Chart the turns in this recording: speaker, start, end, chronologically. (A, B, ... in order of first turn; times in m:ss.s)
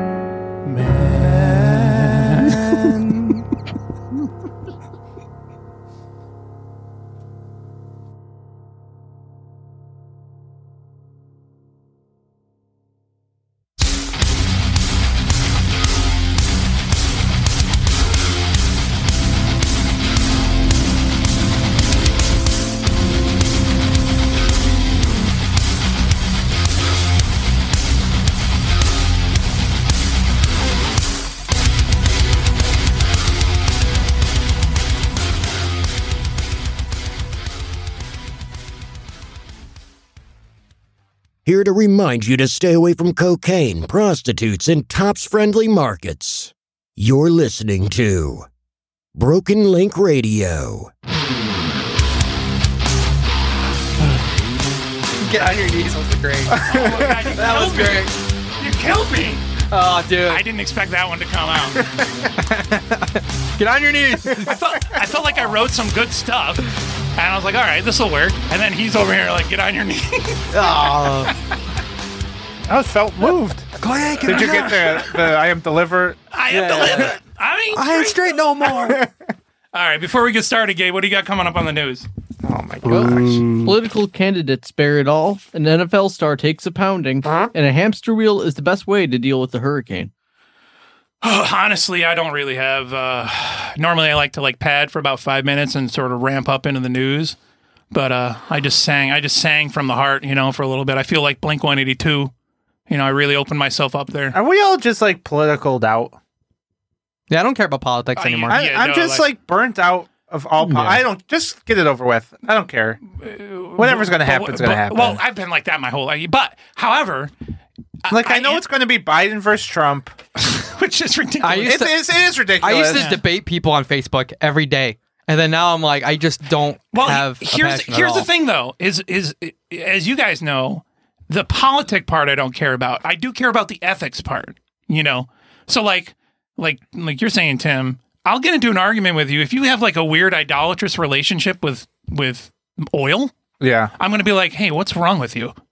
0:00.6-0:02.9 A
0:02.5-0:03.4 B
0:41.4-0:48.5 C
0:49.1-0:50.9 C
0:55.2-0:58.1 B
0:56.5-0:57.1 D
0:56.6-0:59.4 A
0:59.7-1:00.4 B
1:00.3-1:01.8 A
1:02.4-1:04.6 B
1:04.3-1:11.3 A
1:10.5-1:11.3 B
1:12.7-1:13.7 D
1:13.8-1:14.7 B
1:14.2-1:16.2 D
1:14.2-1:15.2 A
1:16.3-1:19.0 A
1:16.5-1:17.1 B
1:17.7-1:19.0 B
1:18.8-1:19.1 D
1:19.7-1:22.1 A
1:22.5-1:23.7 D
1:22.8-1:23.5 B
1:23.6-1:30.1 E
1:31.2-1:37.4 A
1:37.9-1:42.3 A
1:42.9-1:44.3 A
1:44.3-1:46.2 D
1:47.3-1:48.6 B
1:48.2-1:49.3 A
1:48.5-1:53.0 D
1:53.2-1:57.3 A
1:53.8-1:55.2 D
1:58.0-1:58.6 A
1:58.1-2:00.1 D
2:00.4-2:01.8 A
2:01.4-2:01.9 B
2:01.6-2:03.1 D
2:02.6-2:08.3 B
2:02.9-2:03.2 A
2:06.9-2:23.3 A
2:23.6-2:23.9 D
2:24.0-2:25.5 A